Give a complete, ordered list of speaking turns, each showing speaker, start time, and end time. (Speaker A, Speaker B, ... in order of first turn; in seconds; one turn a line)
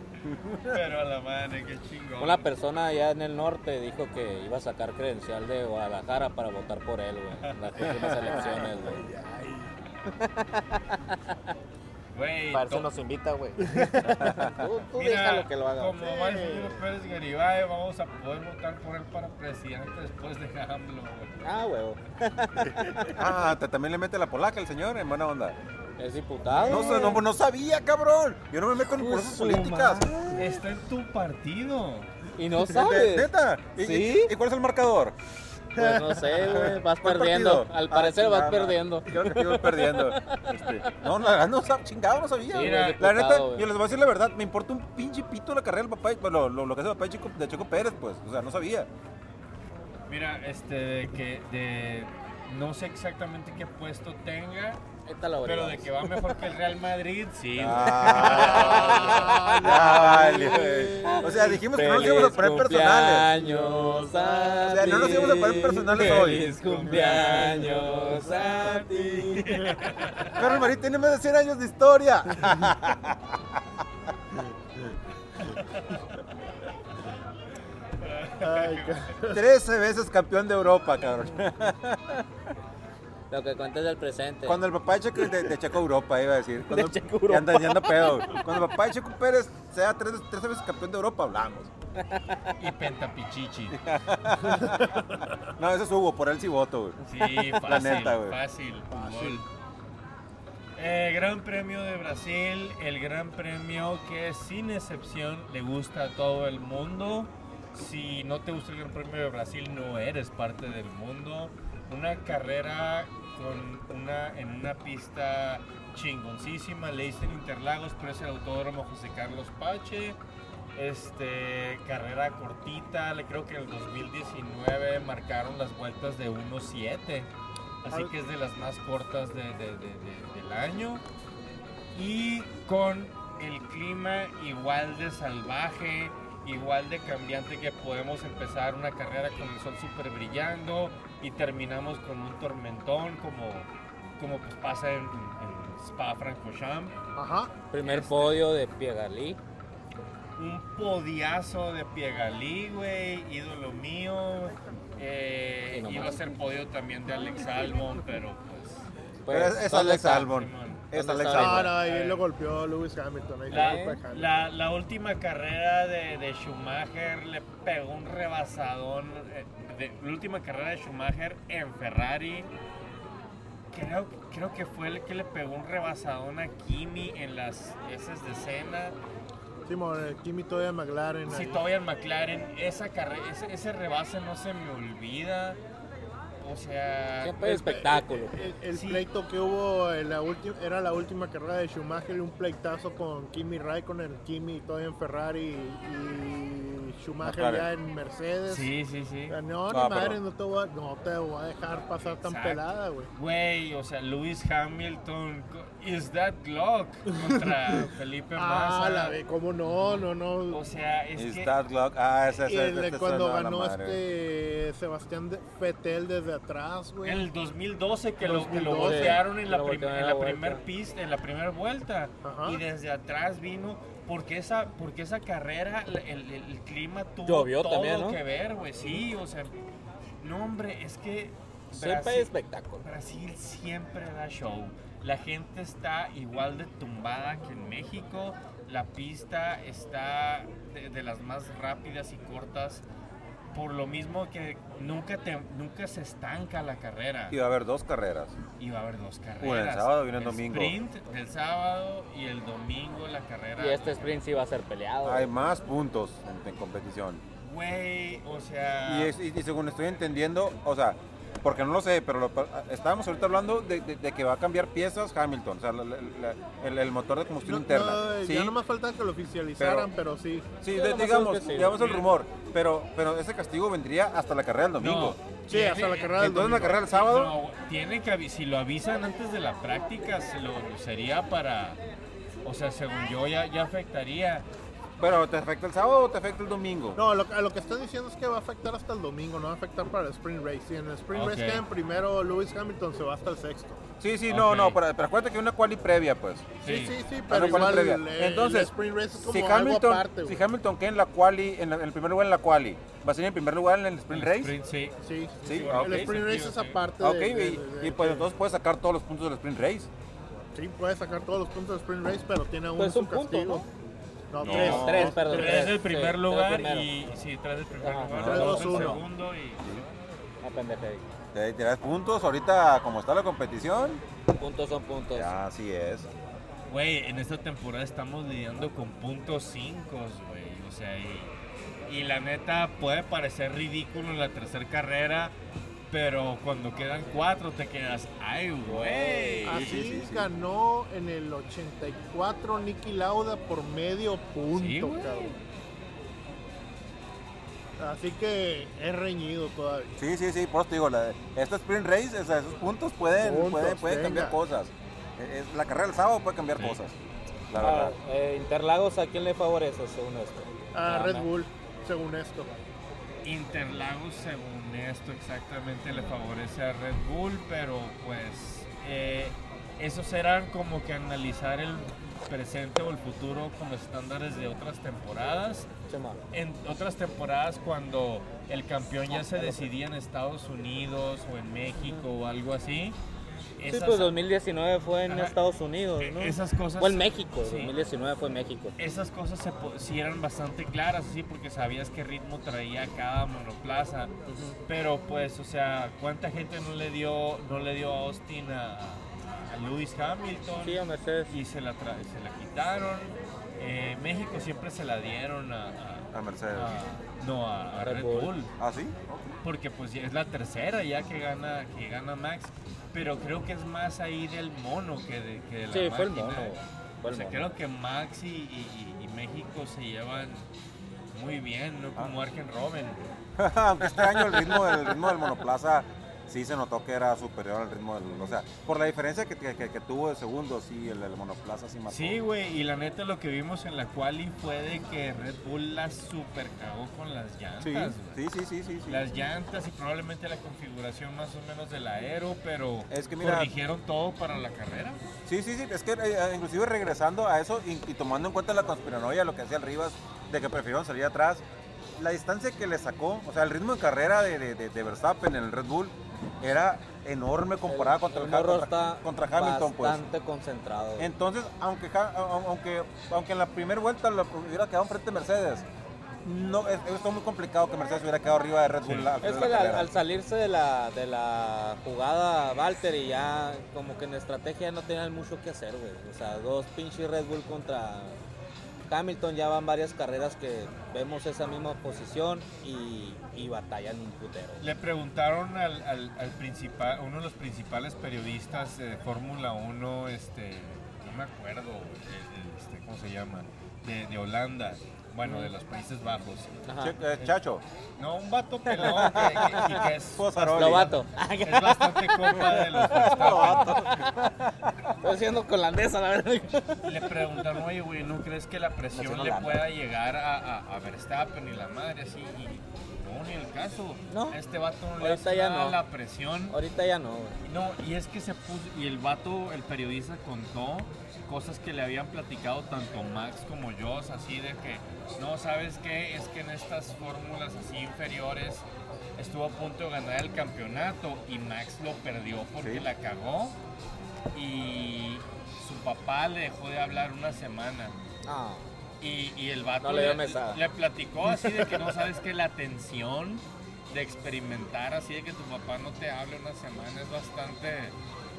Speaker A: 0.2-0.8
Speaker B: 0.7-2.5
Speaker C: 2.2-9.1
Speaker B: 7.4-8.4
Speaker D: 8.2-9.7
Speaker C: 10.1-11.3
Speaker B: 12.1-12.9
Speaker C: 12.5-16.0
Speaker D: 13.7-14.1
Speaker A: 14.2-14.7
Speaker B: 15.0-21.4
Speaker D: 16.0-16.8
Speaker C: 21.4-23.3
Speaker A: 23.1-25.6
Speaker C: 26.0-27.2
Speaker B: 26.6-27.1
Speaker A: 26.6-30.1
Speaker C: 28.8-30.6
Speaker B: 30.3-32.1
Speaker C: 32.4-34.3
Speaker A: 32.6-35.2
Speaker C: 35.8-40.9
Speaker D: 35.8-36.5
Speaker A: 36.4-48.9
Speaker C: 42.5-43.7
Speaker B: 42.5-43.0
Speaker B: 50.1-54.8
Speaker C: 55.1-56.4
Speaker B: 55.4-59.4
Speaker A: 57.6-63.3
Speaker C: 58.0-69.8
Speaker D: 58.4-61.5
Speaker D: 63.4-65.6
Speaker A: 64.7-66.5
Speaker B: 65.9-68.0
Speaker D: 66.8-68.9
Speaker B: 69.2-70.4
Speaker A: 70.4-73.6
Speaker B: 75.6-75.8
Speaker B: 78.0-79.1
Speaker D: 78.4-79.4
Speaker A: 79.3-82.2
Speaker C: 83.3-84.6
Speaker A: 84.5-91.7
Speaker C: 85.2-85.5
Speaker C: 86.7-88.5
Speaker C: 92.1-92.4
Speaker B: 92.6-93.8
Speaker A: 93.7-95.0
Speaker A: 95.6-97.0
Speaker B: 97.0-99.5
Speaker A: 97.5-98.4
Speaker D: 98.9-99.4
Speaker B: 100.8-120.2
Speaker B: 120.8-127.3
Speaker B: 127.8-131.0
Speaker D: 127.9-128.2
Speaker B: 131.9-146.9
Speaker D: 147.2-147.6
Speaker C: 147.7-149.4
Speaker B: 147.8-148.4
Speaker B: 150.4-158.9
Speaker C: 155.7-156.3
Speaker C: 159.2-160.3
Speaker A: 159.3-161.7
Speaker B: 160.3-160.8
Speaker C: 160.9-161.8
Speaker D: 161.3-164.3
Speaker B: 161.7-162.2
Speaker B: 163.5-172.5
Speaker C: 163.5-164.0
Speaker B: 173.7-179.0
Speaker D: 179.7-181.6
Speaker B: 181.3-185.6
Speaker B: 186.4-187.5
Speaker C: 187.2-188.4
Speaker D: 187.4-198.7
Speaker B: 188.7-189.1
Speaker A: 197.2-197.7
Speaker B: 198.5-199.4
Speaker D: 199.3-203.1
Speaker A: 199.7-200.2
Speaker B: 202.2-209.2
Speaker D: 208.4-210.6
Speaker B: 209.7-211.5
Speaker A: 211.2-214.0
Speaker D: 212.4-217.3
Speaker B: 217.0-229.5
Speaker D: 218.2-219.2
Speaker C: 218.8-220.6
Speaker D: 222.2-222.6
Speaker C: 227.3-228.2
Speaker B: 230.2-232.3
Speaker C: 231.7-232.8
Speaker B: 232.8-242.8
Speaker B: 243.5-247.4
Speaker A: 247.3-248.4
Speaker B: 248.6-254.2
Speaker A: 249.4-250.8
Speaker C: 253.6-255.3
Speaker A: 255.1-257.2
Speaker B: 257.4-259.1
Speaker A: 258.9-268.6
Speaker D: 267.4-270.5
Speaker A: 269.6-269.9
Speaker A: 270.6-275.2
Speaker C: 270.7-271.9
Speaker B: 271.8-272.1
Speaker B: 274.8-281.8
Speaker D: 275.5-276.8
Speaker A: 276.2-277.4
Speaker B: 282.4-284.5
Speaker A: 285.0-287.0
Speaker D: 286.9-293.8
Speaker B: 291.1-291.6
Speaker A: 294.0-296.5
Speaker B: 294.3-294.8
Speaker B: 296.6-297.5
Speaker D: 296.6-300.4
Speaker A: 297.3-304.6
Speaker B: 304.1-306.8
Speaker D: 305.0-308.3
Speaker A: 305.4-306.2
Speaker A: 307.0-309.9
Speaker D: 310.6-313.7
Speaker C: 312.8-313.6
Speaker D: 314.3-315.8
Speaker A: 314.4-315.2
Speaker C: 314.4-316.9
Speaker B: 314.5-319.7
Speaker C: 317.8-319.0
Speaker A: 318.1-318.6
Speaker D: 318.1-319.0
Speaker C: 320.4-321.0
Speaker A: 321.3-324.0
Speaker C: 324.4-325.4
Speaker A: 325.1-326.1
Speaker B: 326.7-331.3
Speaker B: 331.9-335.4
Speaker B: 335.9-339.7
Speaker C: 338.6-339.7
Speaker D: 339.4-345.4
Speaker A: 339.5-340.3
Speaker B: 344.5-345.4
Speaker D: 347.8-349.9
Speaker A: 350.0-357.0
Speaker D: 353.2-354.4
Speaker A: 357.5-357.9
Speaker C: 357.6-361.3
Speaker D: 360.8-362.5
Speaker B: 363.2-375.7
Speaker C: 375.9-376.2
Speaker B: 376.3-383.0
Speaker C: 379.1-379.7
Speaker B: 383.6-384.1
Speaker C: 383.7-388.8
Speaker B: 385.1-385.4
Speaker B: 386.0-387.7
Speaker B: 388.8-394.1
Speaker C: 394.3-394.6
Speaker B: 394.7-400.8
Speaker C: 400.6-401.3
Speaker B: 401.3-408.5
Speaker A: 406.1-406.8
Speaker C: 407.8-408.3
Speaker A: 408.6-409.3
Speaker B: 409.4-416.6
Speaker C: 415.7-417.5
Speaker B: 417.1-420.5
Speaker B: 421.1-423.0
Speaker A: 423.4-432.2
Speaker B: 423.9-424.6
Speaker B: 431.9-438.2
Speaker A: 437.6-439.1
Speaker B: 438.9-445.0
Speaker A: 442.9-443.5
Speaker A: 445.3-451.4
Speaker A: 452.0-460.1
Speaker C: 457.7-461.1
Speaker A: 461.0-465.7
Speaker A: 466.2-469.9
Speaker B: 468.8-469.1
Speaker C: 469.2-478.2
Speaker C: 478.9-484.6
Speaker B: 484.6-496.6
Speaker C: 495.2-495.5
Speaker C: 496.7-497.0
Speaker A: 496.8-497.6
Speaker B: 498.0-503.9
Speaker C: 498.7-499.8
Speaker A: 499.1-500.9
Speaker C: 500.5-504.3
Speaker A: 502.9-504.9
Speaker C: 505.0-506.8
Speaker B: 506.8-516.6
Speaker C: 508.9-509.6
Speaker C: 514.1-514.4
Speaker C: 515.0-515.8
Speaker C: 516.5-517.4
Speaker B: 517.5-533.6
Speaker A: 532.6-532.9
Speaker B: 534.3-538.0
Speaker C: 538.3-538.7
Speaker B: 539.0-548.0
Speaker C: 539.8-540.6